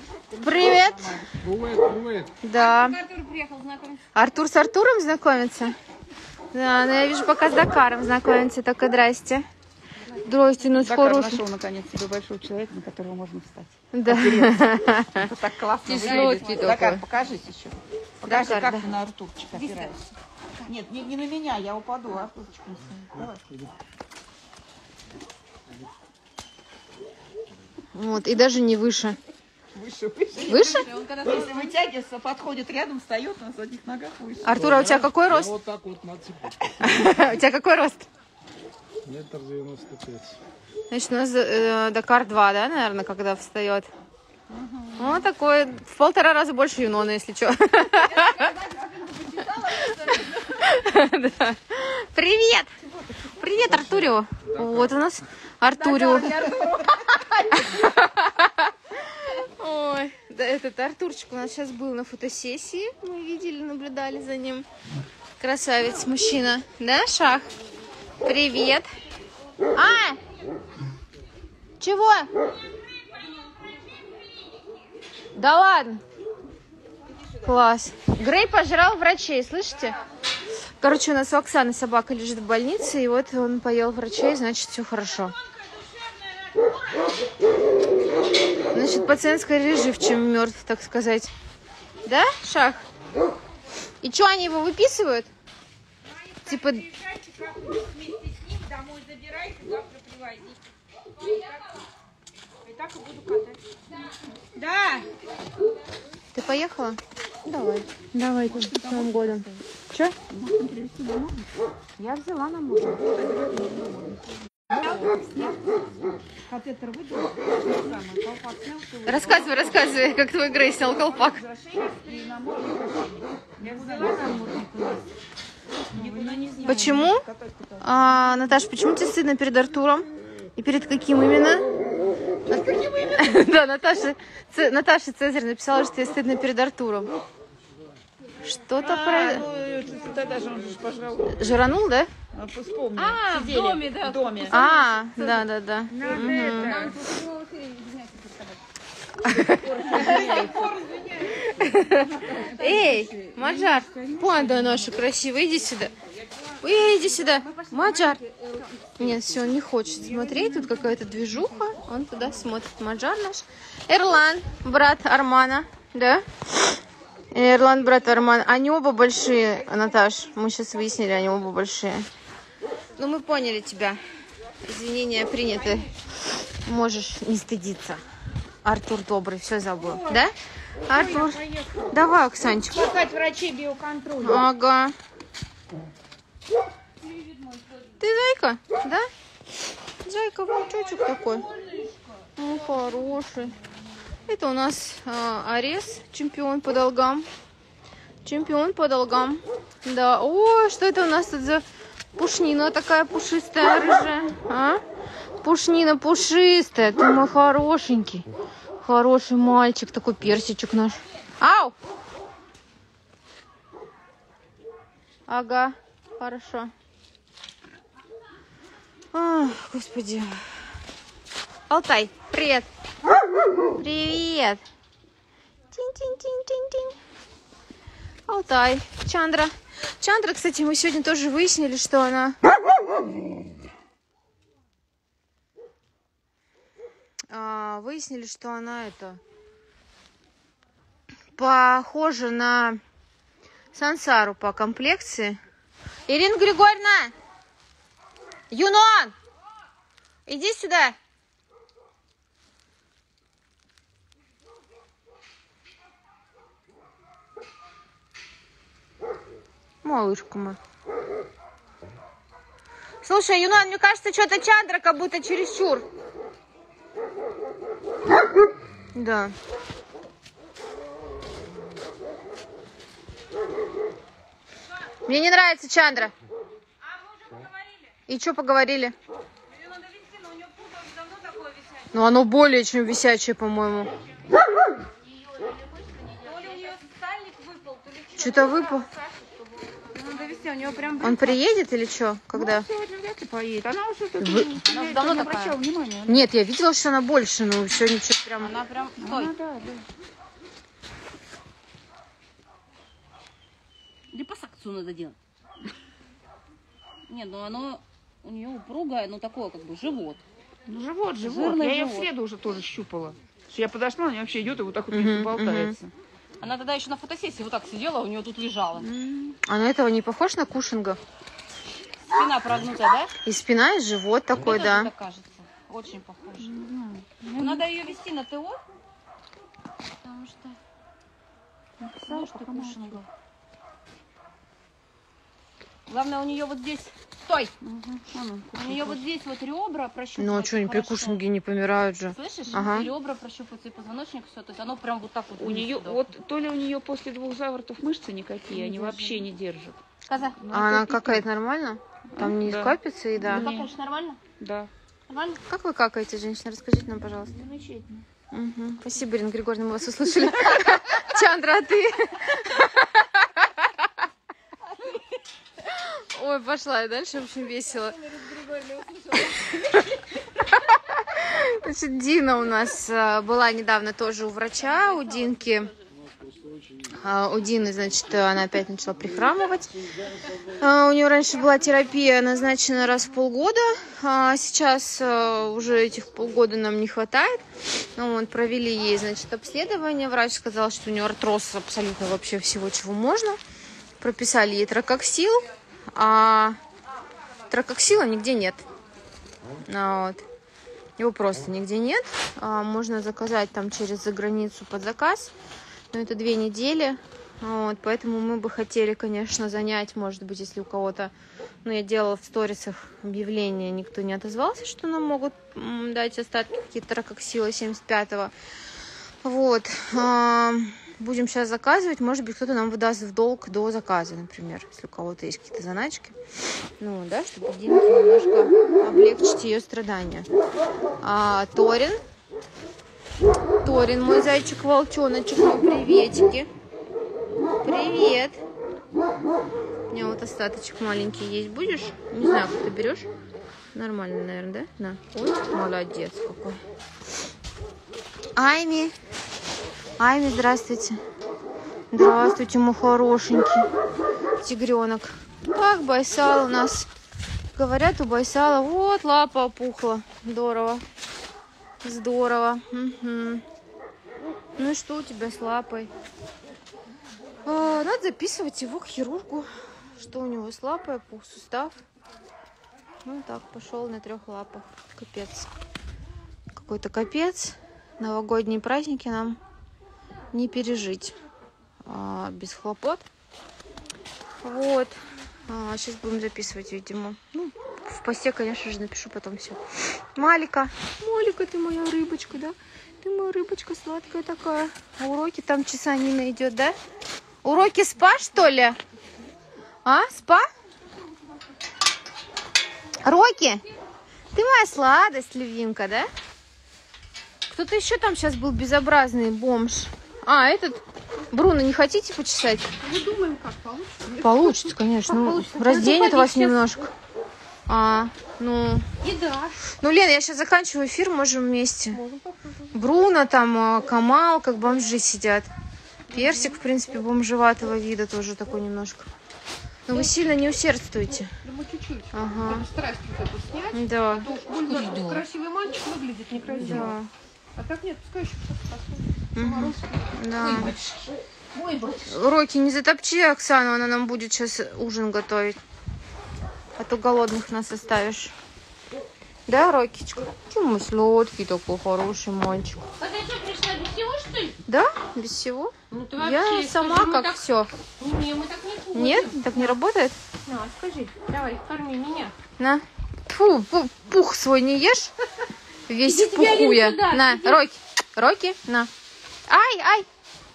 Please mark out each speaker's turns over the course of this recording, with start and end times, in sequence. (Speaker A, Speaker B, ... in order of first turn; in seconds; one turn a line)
Speaker A: 0.3-1.4
Speaker B: 0.4-1.2
Speaker C: 1.3-2.3
Speaker B: 2.4-3.0
Speaker D: 2.5-4.1
Speaker B: 4.2-5.7
Speaker B: 6.5-9.5
Speaker B: 10.2-11.4
Speaker A: 10.8-20.1
Speaker B: 13.9-15.3
Speaker B: 15.9-17.0
Speaker D: 15.9-16.6
Speaker B: 18.2-18.9
Speaker D: 19.5-20.0
Speaker A: 20.6-23.4
Speaker B: 27.9-29.2
Speaker A: 29.7-34.8
Speaker D: 30.4-31.8
Speaker B: 30.5-30.9
Speaker B: 34.4-35.5
Speaker C: 34.6-36.8
Speaker B: 36.8-38.0
Speaker C: 39.0-40.4
Speaker B: 40.9-43.9
Speaker A: 44.5-44.9
Speaker B: 45.0-48.5
Speaker D: 48.2-50.0
Speaker B: 49.7-52.8
Speaker B: 53.3-56.8
Speaker A: 55.7-57.5
Speaker B: 57.5-64.7
Speaker B: 65.4-67.5
Speaker B: 68.2-68.9
Speaker B: 69.8-70.2
Speaker B: 71.8-72.3
Speaker B: 75.3-76.0
Speaker B: 77.4-80.0
Speaker B: 80.8-85.3
Speaker B: 88.7-91.3
Speaker B: 92.0-92.9
Speaker B: 94.0-95.3
Speaker B: 96.5-96.9
Speaker A: 97.5-100.6
Speaker A: 102.7-103.6
Speaker D: 104.6-105.0
Speaker B: 106.3-110.1
Speaker A: 108.5-109.6
Speaker A: 110.2-111.5
Speaker D: 112.0-113.0
Speaker A: 112.9-114.2
Speaker A: 114.7-115.5
Speaker A: 116.5-120.2
Speaker B: 119.1-121.4
Speaker A: 121.0-124.7
Speaker D: 123.6-125.0
Speaker A: 125.9-127.8
Speaker D: 126.0-127.0
Speaker B: 126.7-127.3
Speaker B: 127.8-130.1
Speaker B: 130.6-131.6
Speaker A: 132.5-133.1
Speaker B: 132.5-137.1
Speaker B: 138.4-139.4
Speaker A: 138.8-141.6
Speaker B: 141.3-142.1
Speaker A: 142.3-144.6
Speaker D: 142.9-145.4
Speaker B: 144.5-146.9
Speaker A: 145.9-147.1
Speaker D: 146.0-148.6
Speaker B: 149.2-150.3
Speaker A: 149.6-154.8
Speaker D: 149.7-150.7
Speaker B: 151.4-155.9
Speaker B: 156.6-158.2
Speaker B: 159.0-166.8
Speaker B: 167.3-172.1
Speaker B: 173.0-174.0
Speaker B: 174.6-178.0
Speaker B: 178.6-180.3
Speaker A: 179.8-180.2
Speaker B: 180.9-182.9
Speaker A: 180.9-181.8
Speaker A: 182.7-184.5
Speaker B: 184.2-184.9
Speaker B: 188.0-189.1
Speaker B: 190.1-191.5
Speaker B: 192.4-193.6
Speaker B: 194.3-197.3
Speaker B: 198.2-204.8
Speaker B: 205.4-208.2
Speaker B: 208.8-211.8
Speaker B: 215.3-216.7
Speaker B: 219.1-220.5
Speaker B: 221.7-222.7
Speaker B: 223.8-224.6
Speaker B: 225.7-227.0
Speaker B: 228.3-232.4
Speaker B: 237.3-239.2
Speaker B: 241.4-242.8
Speaker B: 243.7-245.4
Speaker B: 246.1-247.1
Speaker B: 248.5-249.1
Speaker B: 250.3-251.0
Speaker B: 259.8-260.6
Speaker B: 263.0-265.9
Speaker B: 268.9-269.3
Speaker B: 275.1-276.1
Speaker B: 278.1-278.9
Speaker D: 279.6-281.8
Speaker B: 281.9-283.9
Speaker D: 285.4-288.9
Speaker B: 288.2-288.9
Speaker D: 289.9-291.4
Speaker B: 291.0-292.7
Speaker A: 292.3-296.2
Speaker B: 294.2-294.5
Speaker D: 294.7-295.6
Speaker B: 296.1-298.5
Speaker D: 298.4-299.3
Speaker A: 299.0-299.8
Speaker D: 304.1-305.2
Speaker D: 307.1-310.2
Speaker A: 310.7-315.9
Speaker D: 311.2-312.1
Speaker B: 314.9-315.8
Speaker D: 316.4-318.9
Speaker B: 318.9-321.0
Speaker D: 322.1-323.1
Speaker B: 323.2-324.9
Speaker D: 324.4-326.5
Speaker A: 326.4-327.7
Speaker D: 327.3-328.6
Speaker D: 330.0-330.6
Speaker A: 331.8-333.0
Speaker D: 332.0-333.1
Speaker D: 335.9-337.5
Speaker A: 337.6-339.0
Speaker D: 338.5-341.2
Speaker B: 340.2-342.9
Speaker D: 342.1-346.1
Speaker A: 345.4-349.8
Speaker D: 348.5-349.1
Speaker D: 350.1-350.4
Speaker A: 350.4-351.3
Speaker B: 350.5-353.5
Speaker A: 352.1-353.7
Speaker D: 353.2-354.2
Speaker A: 354.4-354.7
Speaker D: 355.1-355.4
Speaker B: 355.5-357.3
Speaker A: 357.4-357.9
Speaker B: 358.3-363.8
Speaker B: 365.7-368.0
Speaker B: 369.5-375.7
Speaker B: 376.9-379.7
Speaker B: 380.6-387.4
Speaker B: 388.0-393.4
Speaker B: 394.0-396.6
Speaker B: 397.5-398.6
Speaker B: 399.6-400.2
Speaker B: 401.0-405.3
Speaker B: 405.9-411.1
Speaker B: 411.6-418.3
Speaker B: 419.2-426.2
Speaker B: 426.8-430.3
Speaker B: 431.0-432.0
Speaker B: 433.6-436.5
Speaker B: 437.6-438.4
Speaker B: 439.9-443.1
Speaker B: 443.7-446.6
Speaker B: 448.4-448.9
Speaker B: 450.0-451.0
Speaker B: 451.9-453.7
Speaker B: 454.4-456.9
Speaker B: 457.6-460.8
Speaker B: 461.8-463.4
Speaker B: 464.6-465.9
Speaker B: 467.4-471.8
Speaker B: 473.0-475.5
Speaker B: 476.5-479.4
Speaker B: 480.3-481.1
Speaker B: 481.9-483.0
Speaker B: 484.4-496.8
Speaker B: 497.4-498.8
Speaker B: 499.9-500.5
Speaker B: 503.0-503.6
Speaker B: 504.3-506.1
Speaker B: 507.5-512.7
Speaker A: 512.8-514.7
Speaker B: 514.2-516.9
Speaker D: 515.1-516.6
Speaker B: 517.7-518.9
Speaker D: 519.0-519.6
Speaker B: 519.7-522.0
Speaker A: 522.0-522.7
Speaker B: 522.7-525.5
Speaker B: 526.1-529.1
Speaker B: 529.9-531.3
Speaker A: 531.5-537.0
Speaker B: 532.1-532.7
Speaker B: 533.7-534.3
Speaker D: 534.2-535.3
Speaker D: 536.1-536.9
Speaker B: 536.6-537.1
Speaker A: 537.6-540.8
Speaker B: 539.4-540.7
Speaker D: 539.4-539.7
Speaker D: 540.4-541.0
Speaker D: 541.5-542.1
Speaker B: 542.1-545.6
Speaker B: 546.8-548.3
Speaker B: 549.5-552.8
Speaker D: 553.0-554.6
Speaker B: 554.7-557.7
Speaker D: 555.9-557.4
Speaker D: 558.0-559.8
Speaker B: 558.9-560.2
Speaker D: 560.5-562.3
Speaker B: 562.6-565.1
Speaker B: 565.9-568.9
Speaker D: 566.0-567.6
Speaker B: 569.5-570.1